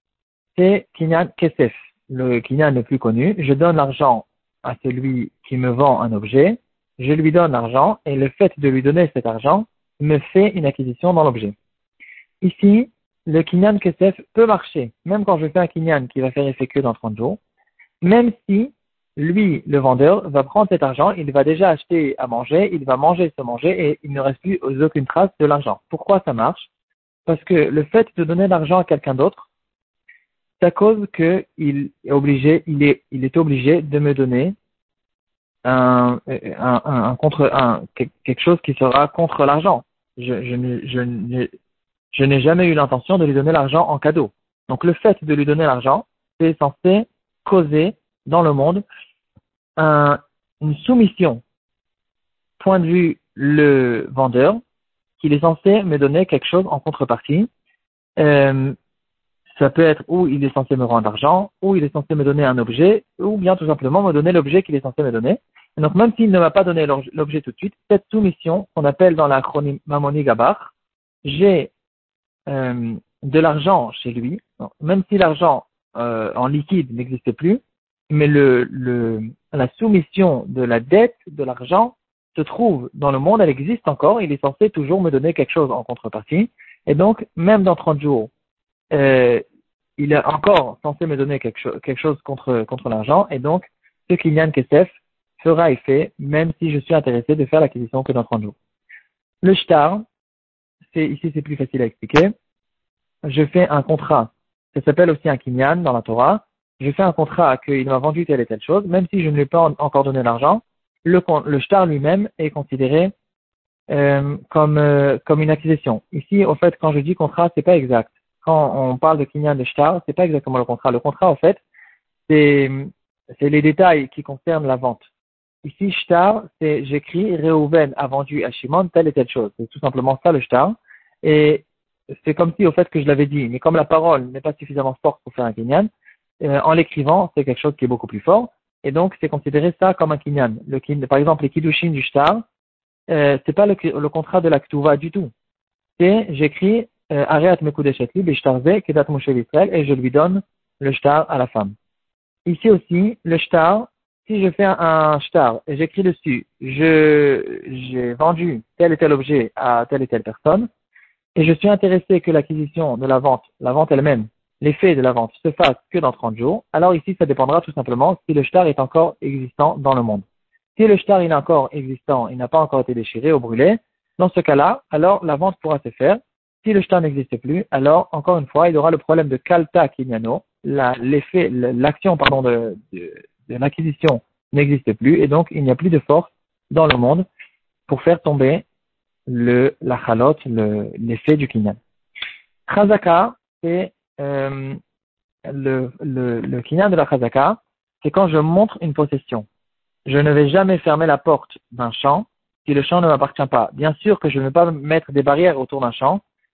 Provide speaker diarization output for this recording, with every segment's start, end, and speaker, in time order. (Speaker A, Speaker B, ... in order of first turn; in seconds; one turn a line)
Speaker A: 0.5-11.6
Speaker A: 12.4-17.4
Speaker A: 18.0-26.7
Speaker A: 27.2-29.5
Speaker A: 30.6-34.5
Speaker A: 35.6-41.5
Speaker A: 42.1-48.8
Speaker A: 49.8-51.4
Speaker A: 52.6-54.6
Speaker A: 55.2-57.5
Speaker A: 58.2-58.8
Speaker A: 59.5-70.7
Speaker A: 71.2-71.7
Speaker A: 72.5-88.3
Speaker A: 88.9-89.4
Speaker A: 90.0-98.5
Speaker A: 99.4-100.0
Speaker A: 100.9-102.3
Speaker A: 103.2-113.1
Speaker A: 113.9-121.6
Speaker A: 122.3-125.1
Speaker A: 125.6-131.6
Speaker A: 132.2-135.9
Speaker A: 136.4-142.4
Speaker A: 143.1-145.3
Speaker A: 146.0-151.7
Speaker A: 152.4-160.7
Speaker A: 161.3-170.2
Speaker A: 170.8-187.2
Speaker A: 187.9-188.6
Speaker A: 189.3-191.8
Speaker A: 192.7-194.8
Speaker A: 195.4-199.4
Speaker A: 200.1-206.2